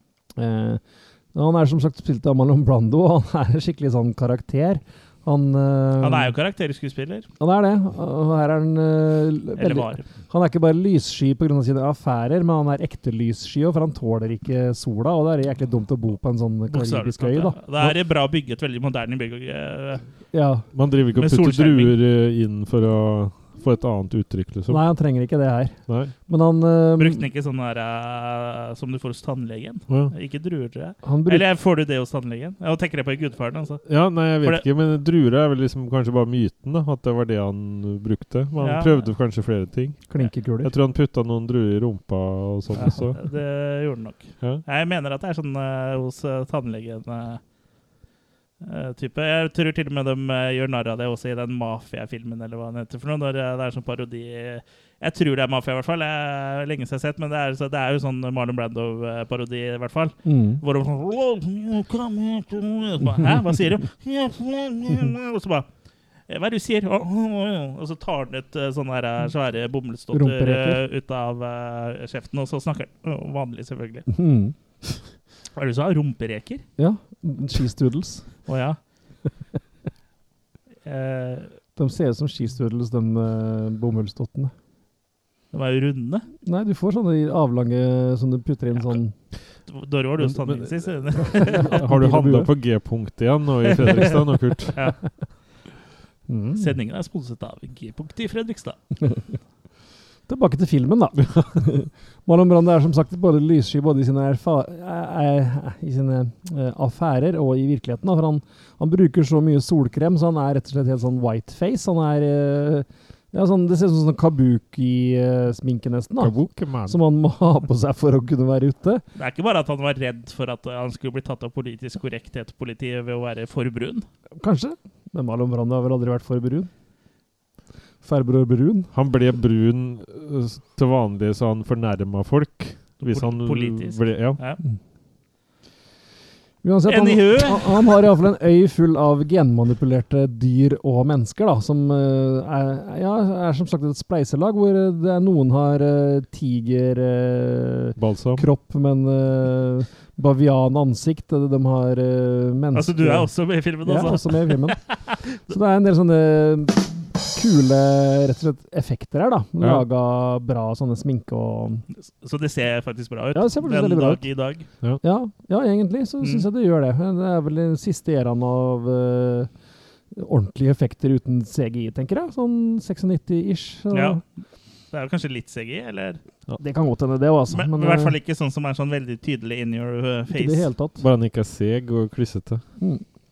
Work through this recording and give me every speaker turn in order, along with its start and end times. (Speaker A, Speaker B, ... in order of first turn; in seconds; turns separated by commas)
Speaker A: 0.3-0.8, Speaker A: 1.3-6.3, Speaker B: 6.0-7.2, Speaker A: 7.4-17.9, Speaker B: 9.6-10.0, Speaker B: 16.7-20.0, Speaker A: 20.3-20.7, Speaker C: 20.7-24.8, Speaker B: 21.2-21.9, Speaker A: 24.7-27.2, Speaker C: 25.9-26.1, Speaker B: 27.0-33.8, Speaker C: 29.9-30.1, Speaker A: 31.0-31.4, Speaker C: 33.9-43.2, Speaker B: 34.4-34.6, Speaker B: 38.6-39.1, Speaker A: 40.1-40.7, Speaker B: 42.8-47.4, Speaker B: 48.6-65.7, Speaker A: 60.2-60.6, Speaker B: 66.3-74.1, Speaker A: 70.1-70.8, Speaker A: 74.1-74.5, Speaker B: 75.5-76.6, Speaker A: 76.8-78.4, Speaker B: 78.5-78.8, Speaker B: 80.8-81.5, Speaker A: 81.8-84.5, Speaker B: 85.5-86.3, Speaker A: 86.4-89.1, Speaker B: 89.7-91.8, Speaker C: 90.2-94.8, Speaker A: 91.2-92.5, Speaker B: 93.7-94.2, Speaker A: 96.3-96.8, Speaker B: 96.6-98.8, Speaker A: 100.3-119.0, Speaker C: 116.2-117.0, Speaker B: 119.2-124.1, Speaker A: 124.4-126.7, Speaker A: 128.0-128.9, Speaker C: 128.9-134.4, Speaker B: 133.0-134.6, Speaker A: 136.6-161.8, Speaker B: 136.9-138.0, Speaker C: 148.0-148.5, Speaker B: 152.7-155.1, Speaker B: 161.9-164.7, Speaker A: 163.3-164.3, Speaker A: 165.0-169.5, Speaker A: 170.1-174.2, Speaker B: 173.9-174.2, Speaker B: 174.9-176.2, Speaker A: 176.6-178.2, Speaker B: 177.5-180.7, Speaker A: 180.3-181.0, Speaker C: 181.0-182.6